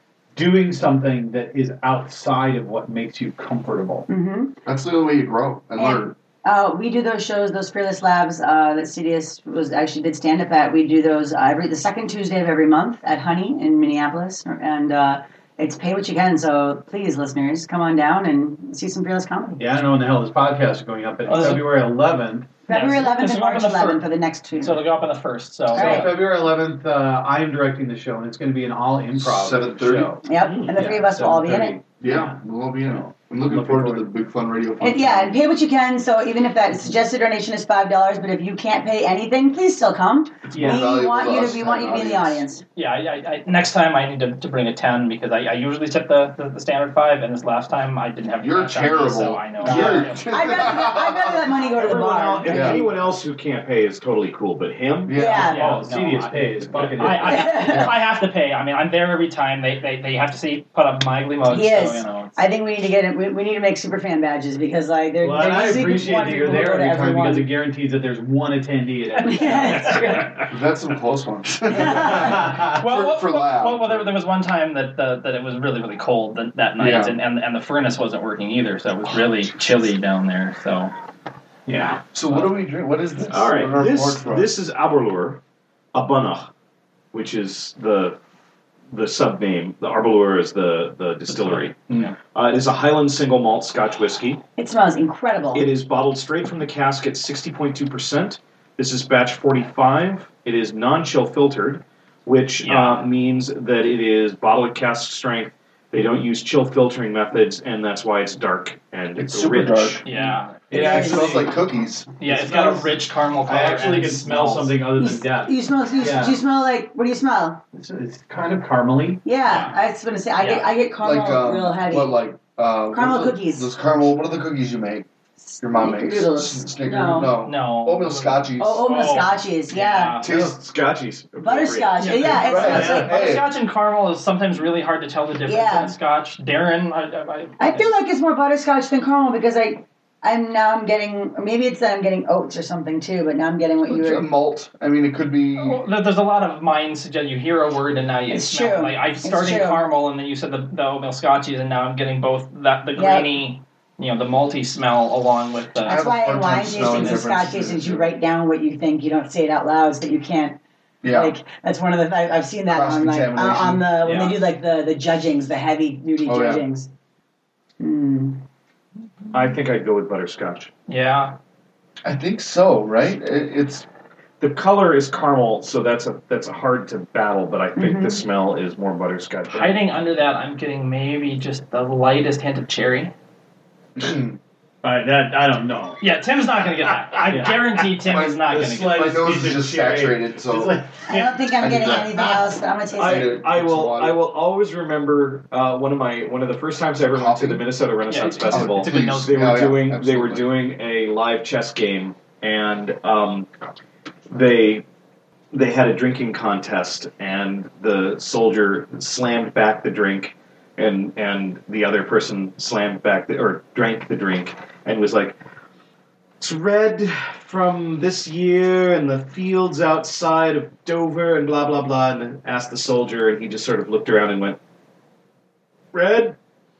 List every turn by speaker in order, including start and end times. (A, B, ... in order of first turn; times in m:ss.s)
0:00.4-0:04.1 A
0:04.1-0:04.5 B
0:04.6-0:06.1 C
0:05.8-0:19.7 B
0:19.6-0:22.5 A
0:21.2-0:21.7 D
0:22.7-0:24.9 B
0:22.7-0:24.0 D
0:24.6-0:26.1 D
0:25.7-0:34.1 A
0:25.8-0:26.1 B
0:29.2-0:30.1 C
0:30.2-0:31.8 B
0:30.4-0:30.9 E
0:32.0-0:35.4 C
0:34.8-0:42.6 B
0:40.5-0:40.8 A
0:40.5-0:42.4 C
0:42.8-0:50.6 D
0:48.4-0:51.7 C
0:49.6-0:50.1 A
0:49.7-0:52.9 B
0:51.7-0:55.2 E
0:52.5-0:52.8 C
0:55.0-0:55.5 C
0:55.1-0:55.7 B
0:55.4-0:57.5 A
0:55.4-0:56.4 D
0:56.7-0:57.1 E
0:56.9-1:02.4 D
0:57.3-0:57.9 B
0:57.7-0:58.0 C
1:01.5-1:07.5 B
1:05.2-1:10.2 A
1:09.2-1:10.4 B
1:10.0-1:10.3 E
1:10.5-1:14.1 C
1:11.7-1:12.5 B
1:11.9-1:12.8 A
1:12.6-1:20.9 D
1:16.8-1:17.2 C
1:21.6-1:22.0 A
1:22.1-1:24.5 C
1:23.3-1:25.4 E
1:25.9-1:26.5 E
1:27.1-1:28.2 E
1:28.9-1:34.4 E
1:31.3-1:32.0 D
1:34.6-1:35.7 B
1:35.5-1:50.0 E
1:42.6-1:43.1 D
1:49.2-1:52.1 C
1:50.0-1:50.7 D
1:50.7-1:51.5 A
1:50.7-1:51.4 B
1:52.2-1:54.8 D
1:52.2-1:52.9 A
1:53.4-1:56.4 A
1:55.0-1:57.6 B
1:57.7-1:59.2 A
1:59.2-2:02.1 B
1:59.4-1:59.8 D
2:00.4-2:00.7 D
2:01.0-2:05.0 C
2:02.9-2:03.7 B
2:05.4-2:07.4 B
2:05.6-2:08.8 C
2:07.4-2:10.3 D
2:08.6-2:10.2 B
2:10.2-2:10.6 C
2:10.2-2:12.8 E
2:11.4-2:13.2 B
2:12.0-2:17.9 D
2:12.4-2:13.5 C
2:15.5-2:15.9 B
2:17.6-2:24.2 B
2:23.9-2:25.8 C
2:25.6-2:36.0 D
2:28.3-2:29.8 B
2:33.0-2:33.3 B
2:35.8-2:46.9 B
2:35.9-2:38.1 C
2:41.0-2:41.3 C
2:42.7-2:43.9 C
2:44.0-2:44.4 D
2:46.2-2:46.6 C
2:47.8-2:48.4 B
2:49.3-2:50.7 E
2:50.9-2:51.4 D
2:52.0-2:53.9 C
2:54.4-2:59.8 E
2:57.8-2:58.2 B
2:59.5-3:03.1 D
3:04.0-3:04.4 C
3:04.8-3:06.0 A
3:06.0-3:09.1 D
3:07.3-3:07.6 A
3:08.0-3:10.8 C
3:08.5-3:11.4 A
3:11.0-3:13.4 B
3:11.6-3:14.2 C
3:12.9-3:23.5 E
3:17.1-3:17.6 C
3:18.1-3:19.6 D
3:18.4-3:20.5 C
3:24.3-3:24.8 E
3:25.5-3:35.4 E
3:36.4-3:44.6 E
3:45.9-3:46.4 E